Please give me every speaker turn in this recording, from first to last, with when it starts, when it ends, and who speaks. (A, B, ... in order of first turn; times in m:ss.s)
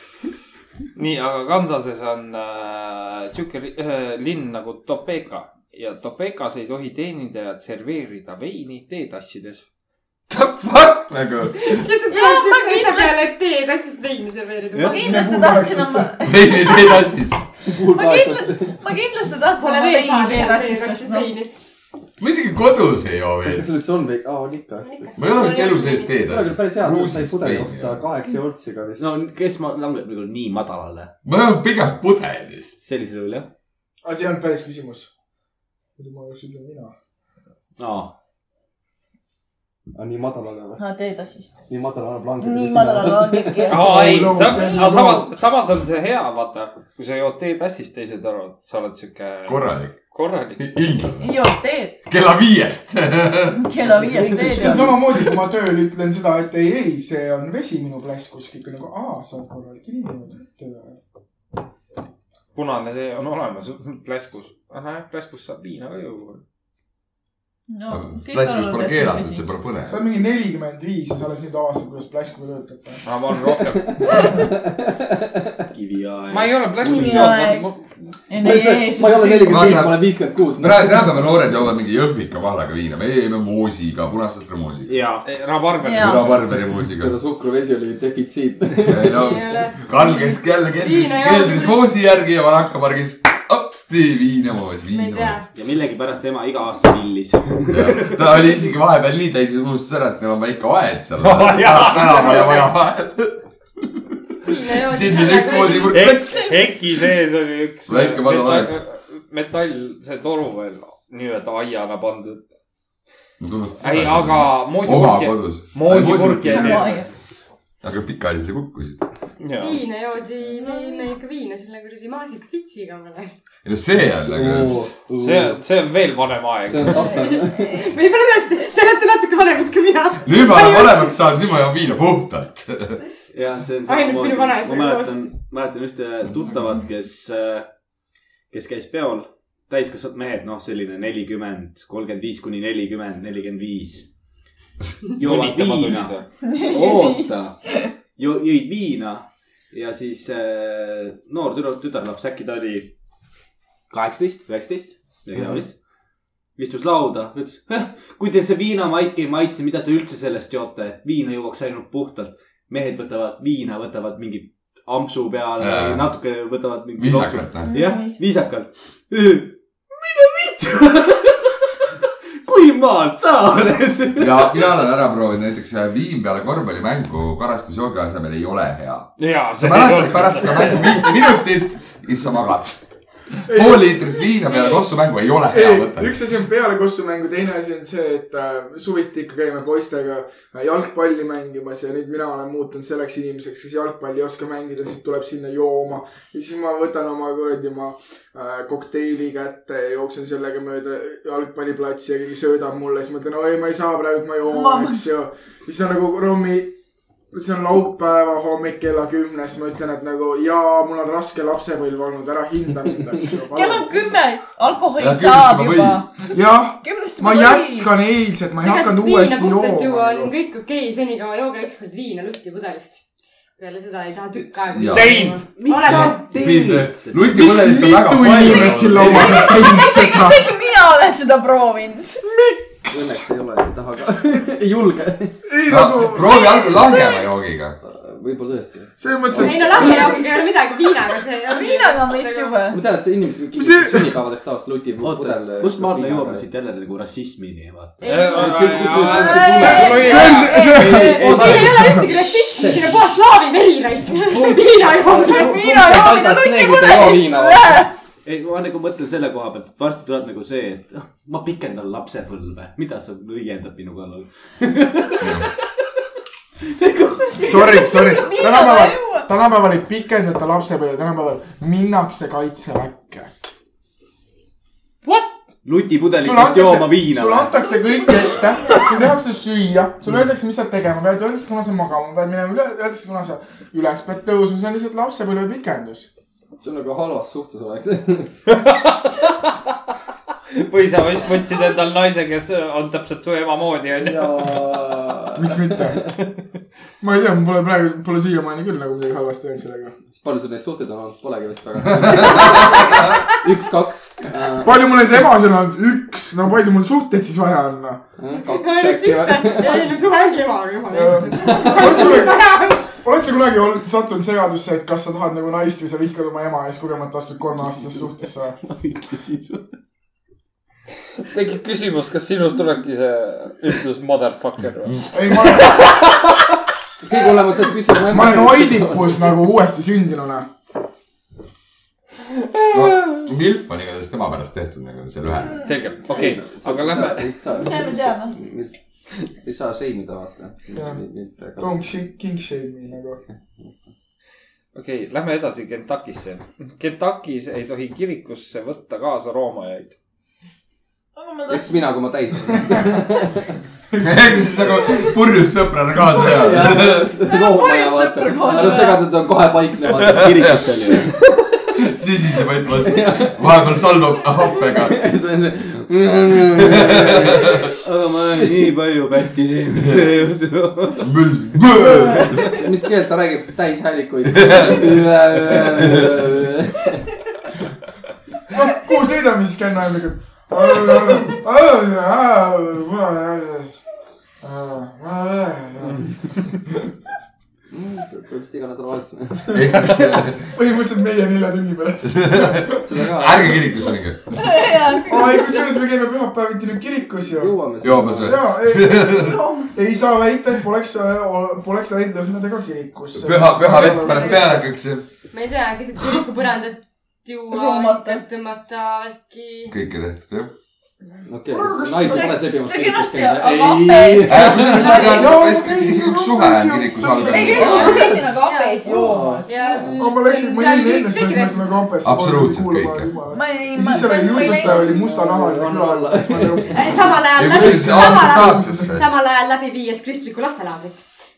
0:01.0-0:09.6 A
0:10.3-0:11.9 B
0:11.6-0:15.2 C
0:12.1-0:13.2 D
0:14.7-0:15.0 E
0:14.8-0:17.1 D
0:15.0-0:16.2 F
0:16.2-0:17.4 B
0:17.7-0:18.8 G
0:17.8-0:21.4 D
0:19.5-0:21.6 C
0:22.2-0:23.7 B
0:23.4-0:25.1 G
0:24.8-0:26.2 C
0:25.2-0:28.1 B
0:26.2-0:29.1 G
0:29.0-0:31.1 E
0:31.2-0:32.8 B
0:32.8-0:33.5 E
0:34.0-0:35.1 F
0:36.0-0:36.9 F
0:37.8-0:38.1 E
0:39.9-0:40.8 G
0:40.8-0:41.5 D
0:41.7-0:43.9 G
0:42.4-0:44.9 D
0:43.7-0:50.7 A
0:43.8-0:45.2 F
0:49.5-0:50.0 B
0:50.6-0:51.5 B
0:51.2-0:52.0 D
0:52.1-0:53.7 B
0:53.5-0:55.0 D
0:54.0-0:54.9 G
0:54.1-0:54.8 E
0:54.5-1:01.0 F
1:02.6-1:06.4 A
1:07.7-1:09.5 D
1:07.9-1:10.0 B
1:09.9-1:13.0 F
1:13.0-1:14.0 A
1:13.7-1:15.6 G
1:15.7-1:17.5 E
1:16.3-1:17.8 A
1:16.9-1:17.7 D
1:18.3-1:19.9 D
1:18.4-1:21.2 G
1:19.4-1:25.0 B
1:24.9-1:25.3 E
1:25.2-1:26.6 A
1:25.8-1:26.4 D
1:25.9-1:27.2 B
1:26.5-1:29.3 G
1:28.8-1:35.4 B
1:29.1-1:31.9 C
1:34.9-1:35.5 C
1:35.5-1:38.6 E
1:37.7-1:43.4 B
1:41.2-1:42.7 A
1:44.4-1:46.0 C
1:44.7-1:46.5 B
1:45.9-1:52.4 A
1:46.1-1:46.6 D
1:47.9-1:48.7 B
1:53.4-1:57.0 B
1:53.8-1:57.1 A
1:56.5-1:57.1 D
1:57.8-1:59.1 B
1:59.4-1:59.8 A
1:59.6-2:03.4 C
2:00.6-2:01.1 D
2:03.6-2:04.9 B
2:04.2-2:05.6 G
2:05.2-2:07.2 A
2:06.7-2:07.9 G
2:07.2-2:11.2 C
2:10.2-2:13.0 B
2:13.3-2:17.7 E
2:13.8-2:15.3 C
2:18.5-2:24.1 E
2:25.2-2:32.9 E
2:25.2-2:26.3 A
2:26.4-2:27.9 D
2:33.9-2:35.8 E
2:36.6-2:51.6 E
2:45.6-2:46.1 B
2:47.0-2:47.8 B
2:47.6-2:48.2 D
2:52.4-2:54.8 E
2:54.2-3:02.8 B
2:59.2-3:01.2 A
3:03.3-3:06.2 B
3:03.5-3:04.1 F
3:05.5-3:26.8 F
3:24.5-3:25.0 D
3:27.3-3:34.0 F
3:33.5-3:36.3 D
3:35.0-3:36.0 B
3:36.3-3:40.3 F
3:36.8-3:38.0 D
3:38.6-3:43.0 C
3:43.6-3:46.3 C
3:44.7-3:45.3 B
3:44.9-3:45.4 A
3:45.6-3:47.4 E
3:45.9-3:49.7 B
3:47.3-3:50.5 F
3:49.0-3:52.2 D
3:52.2-3:53.3 F
3:52.9-3:55.4 G
3:55.4-3:56.7 F
3:55.7-3:57.8 B
3:56.3-3:57.3 D
3:57.8-4:00.2 G
3:59.0-4:00.4 F
3:59.3-4:02.6 C
4:01.4-4:02.8 D
4:02.7-4:06.4 G
4:03.6-4:04.2 F
4:05.0-4:11.7 E
4:08.0-4:10.2 C
4:08.0-4:10.8 A
4:09.1-4:12.0 D
4:10.0-4:12.1 F
4:11.0-4:16.0 C
4:12.5-4:13.0 G
4:15.0-4:17.9 G
4:15.2-4:17.9 D
4:18.2-4:25.4 E
4:25.2-4:25.5 B
4:26.7-4:27.6 E
4:27.3-4:29.3 D
4:27.4-4:33.3 F
4:35.6-4:37.6 E
4:36.2-4:46.1 F
4:37.7-4:38.8 D
4:46.6-4:48.3 G
4:48.5-4:49.5 A
4:50.6-4:54.5 A
4:53.9-4:55.9 G
4:55.4-4:56.1 F
4:57.0-4:59.9 F
5:00.1-5:04.9 G
5:02.0-5:02.8 B
5:04.6-5:08.0 F
5:08.2-5:10.0 G
5:08.5-5:13.0 C
5:10.9-5:18.6 F
5:11.4-5:12.0 G
5:18.7-5:19.7 E
5:21.3-5:26.0 A
5:25.1-5:26.0 F
5:27.0-5:29.4 G
5:28.1-5:30.5 F
5:32.7-5:35.6 B
5:35.6-5:37.3 A
5:36.1-5:41.8 G
5:37.4-5:38.4 D
5:40.7-5:41.0 F
5:41.6-5:43.2 F
5:43.3-5:43.7 G
5:44.7-5:50.0 A
5:51.2-5:51.8 D
5:51.5-5:53.6 G
5:53.9-5:55.2 F
5:54.0-5:57.0 B
5:56.2-6:00.7 G
5:56.9-5:59.2 D
6:00.0-6:01.0 B
6:00.1-6:01.1 E
6:01.7-6:05.0 B
6:02.8-6:03.6 G
6:04.8-6:08.7 G
6:07.6-6:11.1 E
6:09.8-6:10.2 B
6:11.0-6:12.5 B
6:12.4-6:17.2 G
6:14.3-6:16.1 B
6:18.5-6:23.8 F
6:24.4-6:26.7 F
6:27.7-6:29.7 G
6:29.5-6:32.8 F
6:29.5-6:30.6 B
6:32.0-6:34.7 B
6:32.8-6:33.6 G
6:34.3-6:35.8 D
6:35.0-6:37.6 F
6:37.3-6:38.4 G
6:37.8-6:39.4 B
6:38.2-6:44.5 F
6:39.1-6:39.8 D
6:43.1-6:45.1 B
6:43.9-6:44.6 C
6:45.3-6:49.8 C
6:47.5-6:48.2 D
6:49.7-6:50.5 B
6:51.2-6:55.0 G
6:51.5-6:52.4 F
6:52.0-6:55.5 D
6:54.2-6:58.1 B
6:54.6-6:58.2 F
6:57.1-6:59.8 D
6:57.4-7:01.8 C
6:57.6-6:58.0 G
6:58.8-7:00.0 G
7:00.0-7:09.0 F
7:02.0-7:03.1 B
7:03.3-7:05.0 D
7:03.8-7:07.2 G
7:06.7-7:11.0 C
7:07.4-7:09.1 B